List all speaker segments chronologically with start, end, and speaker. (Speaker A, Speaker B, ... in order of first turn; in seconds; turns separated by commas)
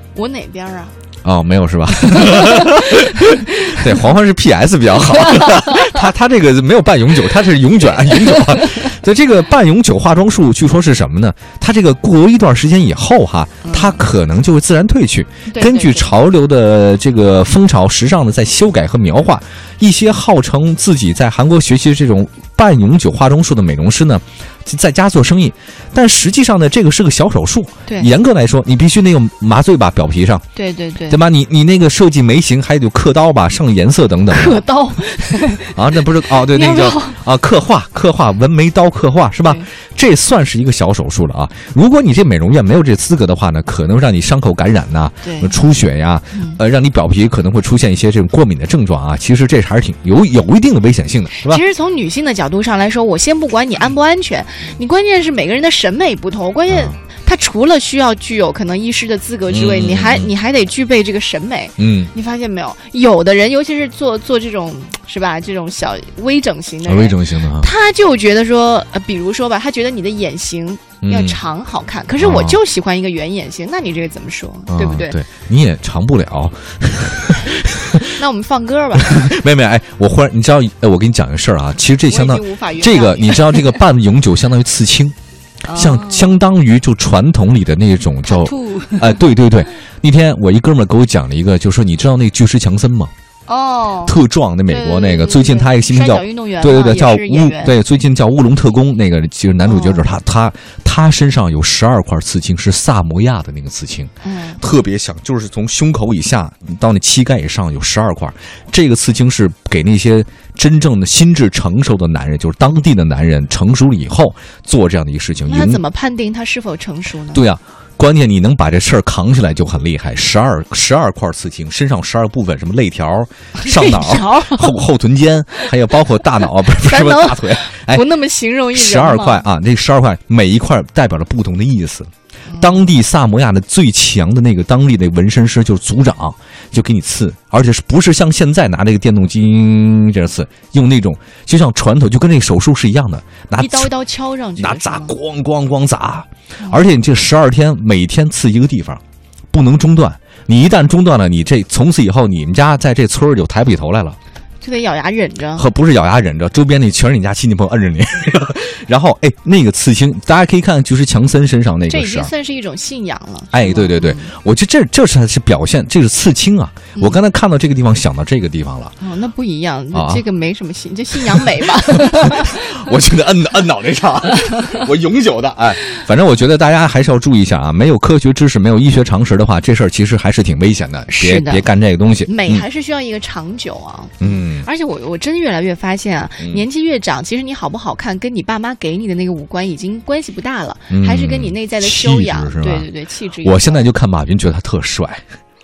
Speaker A: 0.1-0.9, Speaker B: 1.2-30.4, Speaker A: 2.2-3.9, Speaker A: 5.2-6.0, Speaker A: 8.1-8.6, Speaker A: 13.6-14.0, Speaker A: 15.5-16.1, Speaker A: 30.5-31.2, Speaker B: 31.1-34.6, Speaker A: 34.3-37.2, Speaker B: 35.7-51.6, Speaker A: 45.2-45.6, Speaker A: 51.4-75.1, Speaker B: 56.7-57.0, Speaker B: 59.5-60.3, Speaker B: 61.8-62.1, Speaker B: 66.8-67.7, Speaker B: 71.0-71.4, Speaker B: 72.2-72.6, Speaker B: 74.7-78.2, Speaker A: 78.2-79.3, Speaker B: 79.0-85.1, Speaker A: 82.0-83.8, Speaker A: 85.6-86.4, Speaker B: 85.7-93.1, Speaker A: 88.2-89.2, Speaker A: 93.5-94.2, Speaker B: 94.0-115.8, Speaker A: 94.7-97.7, Speaker A: 99.7-100.0, Speaker A: 104.2-104.6, Speaker A: 115.5-117.5, Speaker B: 117.3-128.0, Speaker A: 123.6-124.8, Speaker A: 126.8-129.4, Speaker B: 128.7-143.9, Speaker A: 143.6-145.2, Speaker B: 144.6-149.0, Speaker B: 149.5-154.2, Speaker A: 154.6-155.7, Speaker B: 155.6-162.3, Speaker A: 161.9-164.3, Speaker B: 163.5-168.9, Speaker A: 169.0-172.8, Speaker B: 169.9-170.2, Speaker B: 171.2-182.6, Speaker A: 181.1-181.6, Speaker A: 182.3-193.9, Speaker B: 184.2-184.7, Speaker B: 190.9-192.9, Speaker B: 193.4-195.2